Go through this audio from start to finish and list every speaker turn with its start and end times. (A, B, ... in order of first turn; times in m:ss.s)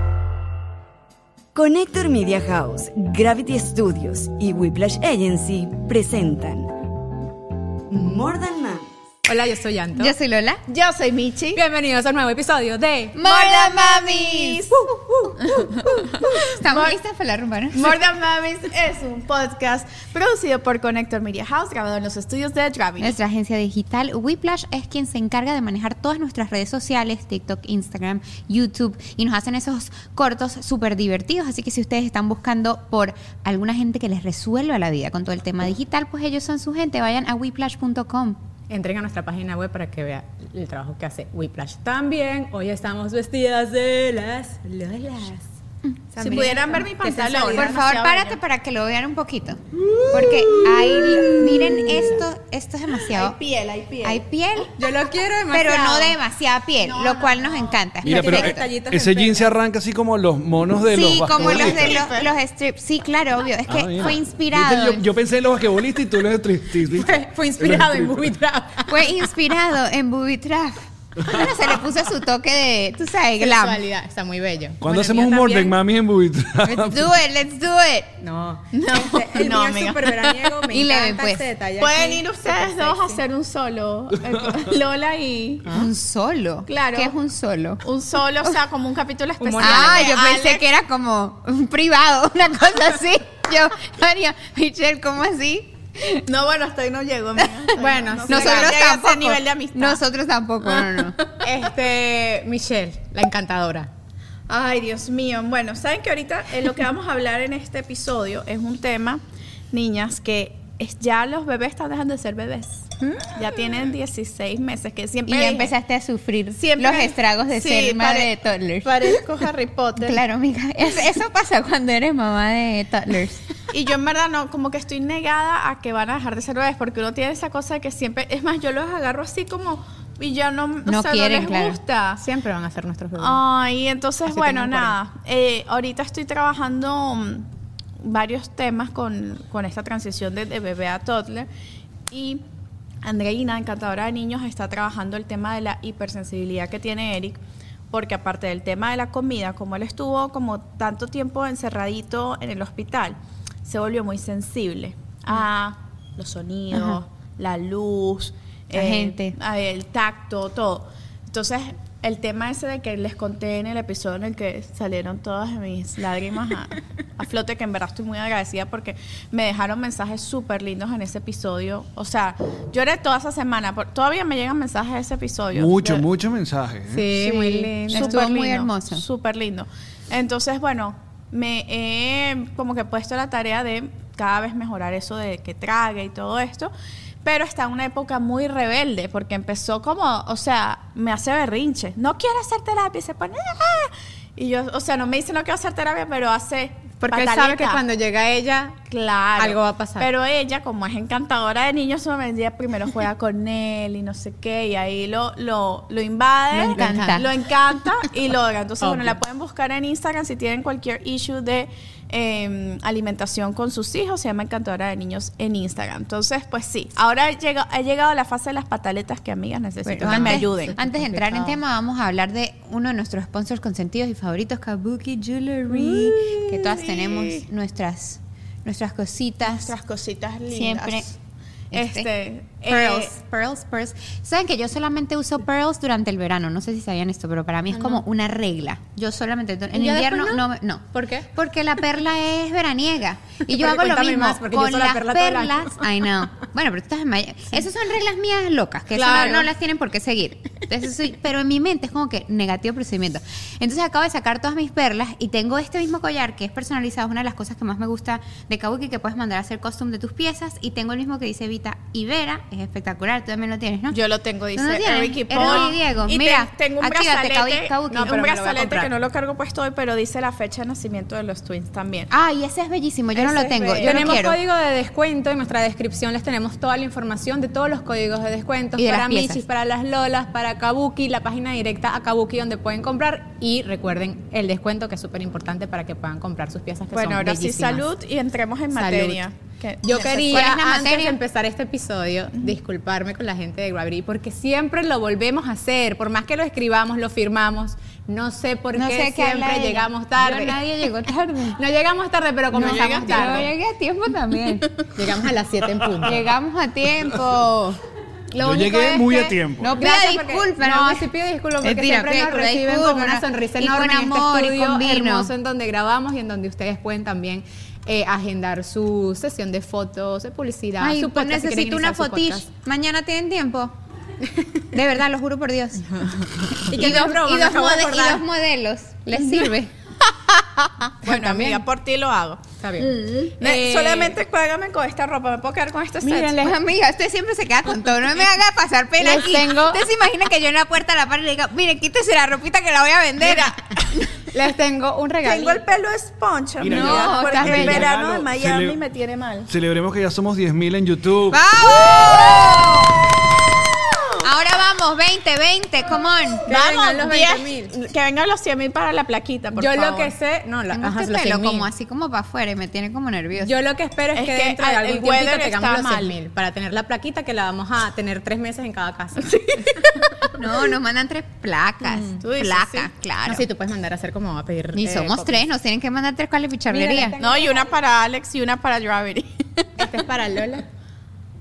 0:01.5-0:06.7 A
0:07.9-0:08.9 A
0:09.2-0:10.1 B
0:10.0-0:10.6 C
0:10.7-0:11.6 D
0:11.5-0:13.2 B
0:13.1-0:18.0 C
0:13.2-0:17.0 D
0:17.7-0:23.1 D
0:23.0-0:38.4 C
0:38.7-0:45.5 B
0:46.1-0:47.8 B
0:46.2-0:48.4 D
0:47.5-0:53.4 C
0:49.8-0:52.1 B
0:51.2-0:51.8 D
0:53.0-0:54.2 D
0:54.0-0:54.7 C
0:54.8-0:56.2 B
0:55.5-0:58.7 C
0:56.8-0:57.8 D
0:58.0-1:02.1 E
0:58.0-0:59.5 B
1:00.9-1:05.0 C
1:01.4-1:02.3 D
1:03.7-1:08.3 E
1:06.9-1:09.3 B
1:08.9-1:13.8 C
1:13.4-1:15.8 B
1:14.8-1:17.1 E
1:16.6-1:17.0 B
1:16.9-1:18.2 C
1:18.2-1:23.2 B
1:18.7-1:20.6 D
1:20.7-1:21.4 C
1:21.8-1:25.7 D
1:25.7-1:27.8 C
1:26.7-1:27.1 D
1:27.8-1:30.6 D
1:29.4-1:30.1 B
1:29.6-1:36.2 C
1:36.2-1:40.0 D
1:37.8-1:38.7 B
1:38.3-1:41.2 C
1:40.6-1:41.5 D
1:41.4-1:43.9 B
1:44.5-1:55.7 D
1:53.0-1:53.3 C
1:55.3-1:59.2 C
1:56.5-2:00.2 D
2:00.0-2:03.4 C
2:03.7-2:12.2 D
2:10.8-2:11.8 C
2:12.2-2:13.4 B
2:13.2-2:17.5 D
2:14.3-2:15.0 B
2:18.0-2:21.5 D
2:22.1-2:22.4 D
2:23.0-2:56.1 D
2:36.7-2:37.0 C
2:38.7-2:39.4 C
2:55.5-2:57.1 E
2:56.9-2:58.2 B
2:57.1-3:06.7 D
2:57.9-2:59.0 C
3:07.2-3:17.8 D
3:17.0-3:18.8 B
3:18.9-3:40.8 D
3:19.4-3:20.1 B
3:26.5-3:27.3 C
3:26.7-3:27.3 B
3:28.8-3:29.2 B
3:39.8-3:49.7 C
3:40.0-3:41.6 B
3:45.8-3:47.4 D
3:49.4-3:51.2 D
3:50.5-3:51.0 C
3:51.7-3:52.1 C
3:51.7-3:53.1 D
3:52.6-4:24.0 C
3:57.7-3:58.0 B
3:59.7-4:01.3 B
4:03.5-4:06.1 B
4:08.9-4:09.5 B
4:23.9-4:32.1 D
4:24.5-4:28.2 C
4:27.9-4:28.9 B
4:32.1-4:34.4 C
4:33.1-4:34.2 D
4:33.8-4:47.8 B
4:38.8-4:39.4 C
4:46.9-4:50.5 D
4:48.7-4:49.2 B
4:49.8-5:03.5 B
4:50.3-4:51.2 C
4:58.7-5:01.6 C
5:02.5-5:03.5 D
5:02.5-5:04.7 C
5:04.9-5:06.2 B
5:06.0-5:07.8 C
5:08.4-5:09.7 E
5:08.4-5:11.0 C
5:09.7-5:22.5 B
5:11.6-5:15.3 C
5:20.8-5:23.7 C
5:24.7-5:29.7 C
5:25.9-5:28.2 B
5:29.2-5:29.5 B
5:31.0-5:36.4 D
5:31.0-5:31.6 B
5:32.6-5:34.2 B
5:36.0-5:36.6 B
5:36.4-5:44.0 C
5:39.0-5:39.8 B
5:43.2-5:44.0 D
5:44.3-5:45.6 B
5:45.2-5:49.5 D
5:46.6-5:48.8 E
5:46.6-5:47.9 C
5:49.5-5:51.4 E
5:51.3-5:53.0 C
5:51.6-5:54.2 D
5:54.2-5:56.4 C
5:56.5-6:00.1 D
5:56.5-5:57.7 B
5:59.6-6:01.7 B
6:00.7-6:03.5 C
6:03.4-6:09.9 B
6:04.1-6:06.2 D
6:09.2-6:10.2 D
6:10.3-6:13.5 C
6:12.2-6:12.9 D
6:13.2-6:15.4 B
6:14.8-6:17.2 C
6:16.7-6:17.8 B
6:17.2-6:19.7 D
6:19.8-6:20.6 B